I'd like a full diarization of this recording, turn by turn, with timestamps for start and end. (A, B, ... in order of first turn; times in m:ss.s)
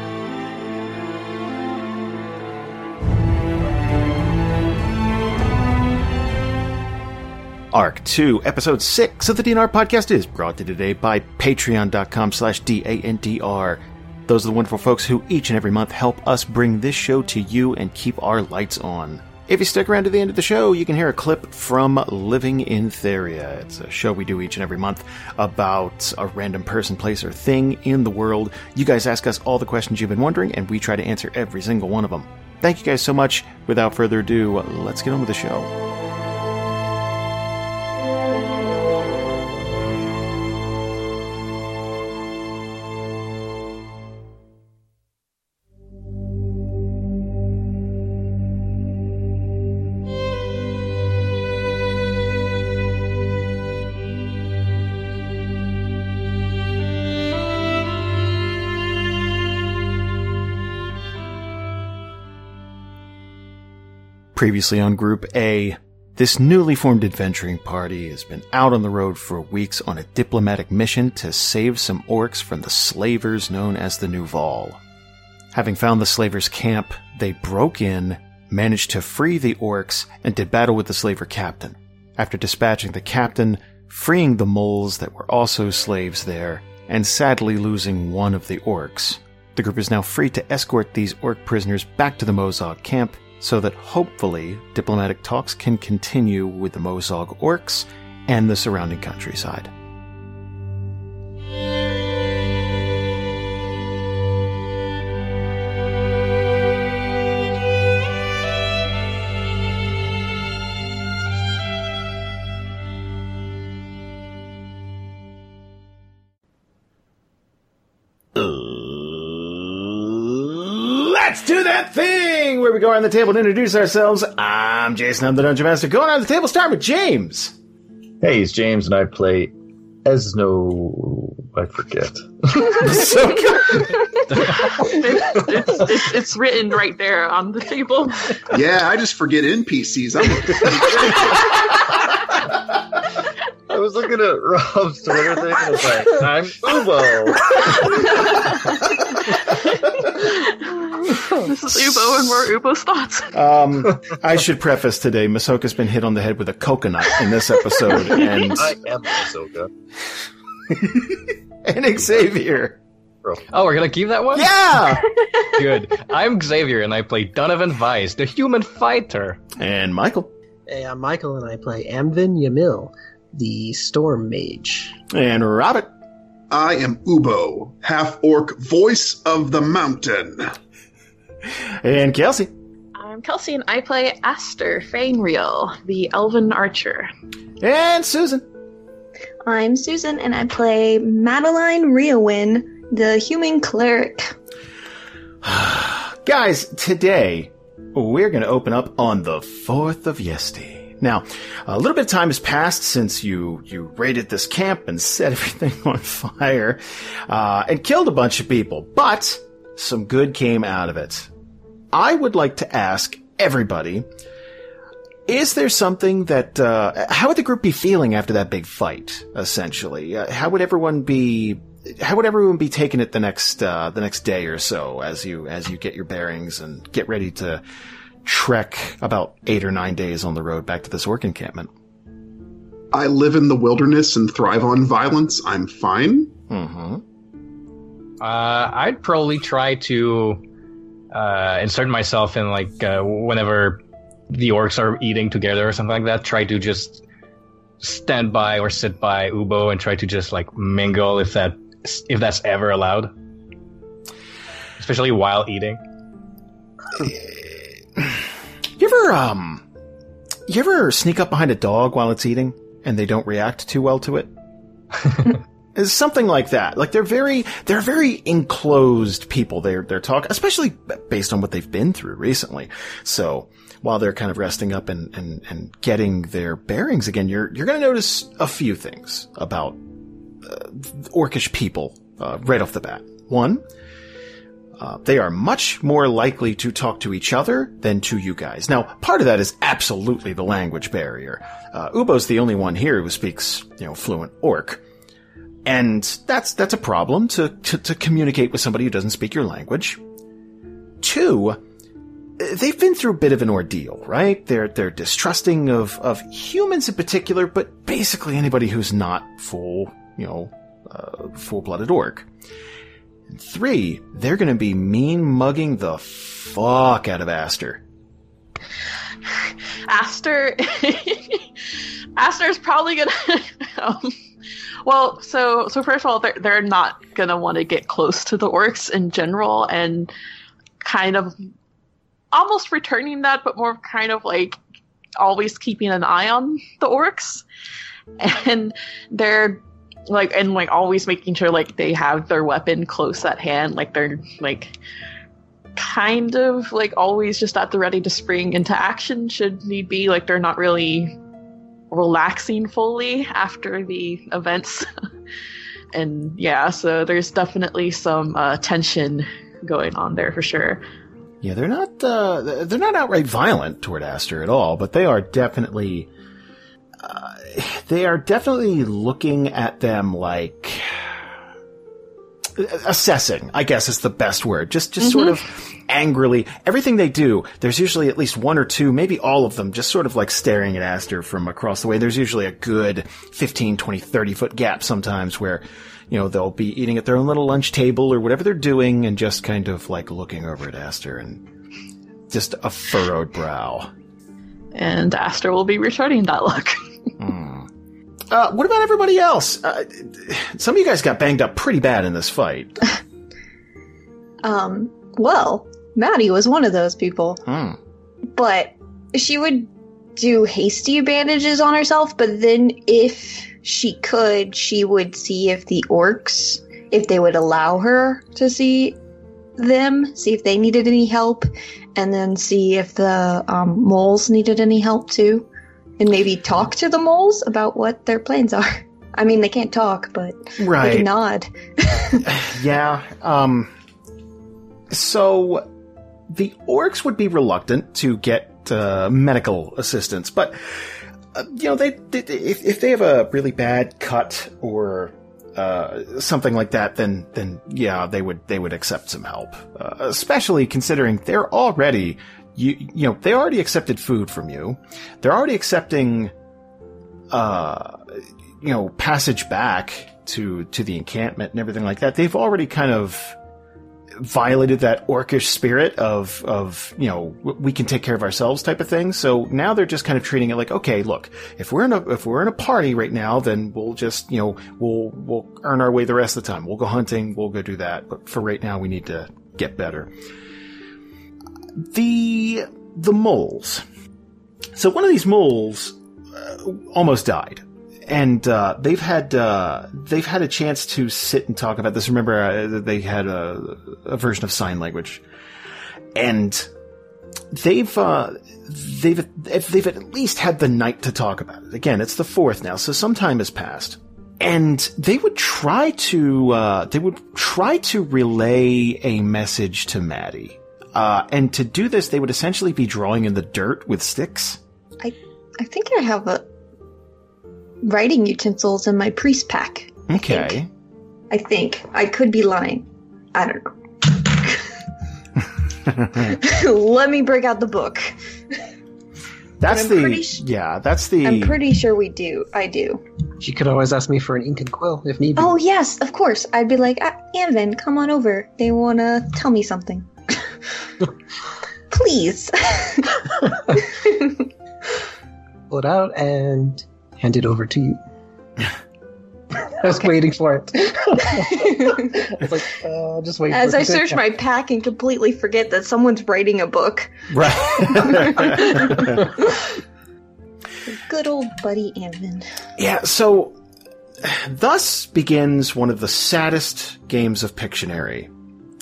0:07.7-0:35.7 A
1:04.4-1:14.8 A
1:15.5-1:39.7 A
1:58.4-2:07.6 A
2:08.2-2:09.5 B
2:10.0-2:13.2 B
2:12.7-2:14.0 A
2:13.9-2:14.8 B
2:14.6-2:18.4 C
2:18.5-2:21.4 D
2:23.7-2:28.5 B
2:29.6-2:33.3 C
2:33.3-2:38.8 A
2:38.2-2:39.7 B
2:40.7-2:42.8 A
2:43.5-2:49.4 E
2:44.3-2:45.1 A
2:49.6-2:50.3 A
2:50.7-2:55.0 F
2:55.1-2:55.9 A
2:56.5-3:00.5 D
3:01.5-3:02.5 A
3:03.0-3:07.1 C
3:07.6-3:08.4 A
3:09.5-3:14.4 G
3:15.4-3:31.3 A
3:31.9-3:34.1 A
3:35.3-3:47.6 A
3:48.2-3:51.7 A
3:52.9-3:56.3 D
3:56.5-3:57.0 A
3:58.2-4:00.4 E
4:01.1-4:07.0 E
4:07.8-4:13.1 E
4:14.8-4:15.8 E
4:17.0-4:19.6 A
4:20.5-4:24.3 A
4:25.7-4:39.8 A
4:40.4-4:43.6 A
4:44.8-4:54.8 A
4:55.6-5:00.0 A
5:01.0-5:01.6 A
5:02.4-5:12.3 A
5:13.3-5:17.8 A
5:19.3-5:24.2 C
5:24.8-5:30.1 C
5:30.8-5:31.4 C
5:32.3-5:34.6 C
5:35.2-5:37.4 C
5:38.2-5:44.8 C
5:45.8-5:51.2 C
5:51.9-5:54.9 C
5:55.9-6:00.8 C
6:01.4-6:06.1 A
6:07.0-6:11.2 A
6:12.6-6:31.4 A
6:32.3-6:33.9 A
6:34.7-6:36.8 C
6:37.2-6:37.7 A
6:38.3-6:42.8 A
6:44.4-6:47.4 G
6:47.4-6:47.8 A
6:48.3-6:59.0 G
6:59.6-7:05.5 G
7:06.0-7:12.3 G
7:10.6-7:11.1 A
7:12.2-7:13.7 A
7:14.9-7:15.7 A
7:16.3-7:36.3 A
7:37.3-7:43.4 A
7:44.2-8:00.1 A
8:01.8-8:03.8 A
8:04.8-8:15.2 A
8:16.1-8:16.7 A
8:17.5-8:34.6 A
8:35.0-8:36.4 G
8:37.8-8:40.6 G
8:40.1-8:40.7 A
8:41.3-8:44.7 G
8:46.0-8:46.2 A
8:46.2-8:48.1 G
8:49.6-8:51.6 A
8:49.7-8:50.4 G
8:51.2-8:53.0 G
8:53.4-8:55.6 F
8:55.4-9:00.1 G
9:01.9-9:04.4 G
9:05.7-9:08.0 F
9:09.6-9:14.2 F
9:11.4-9:12.2 G
9:13.5-9:17.1 G
9:17.3-9:19.3 A
9:17.7-9:19.6 G
9:20.9-9:22.4 G
9:22.8-9:23.6 A
9:24.2-9:28.3 A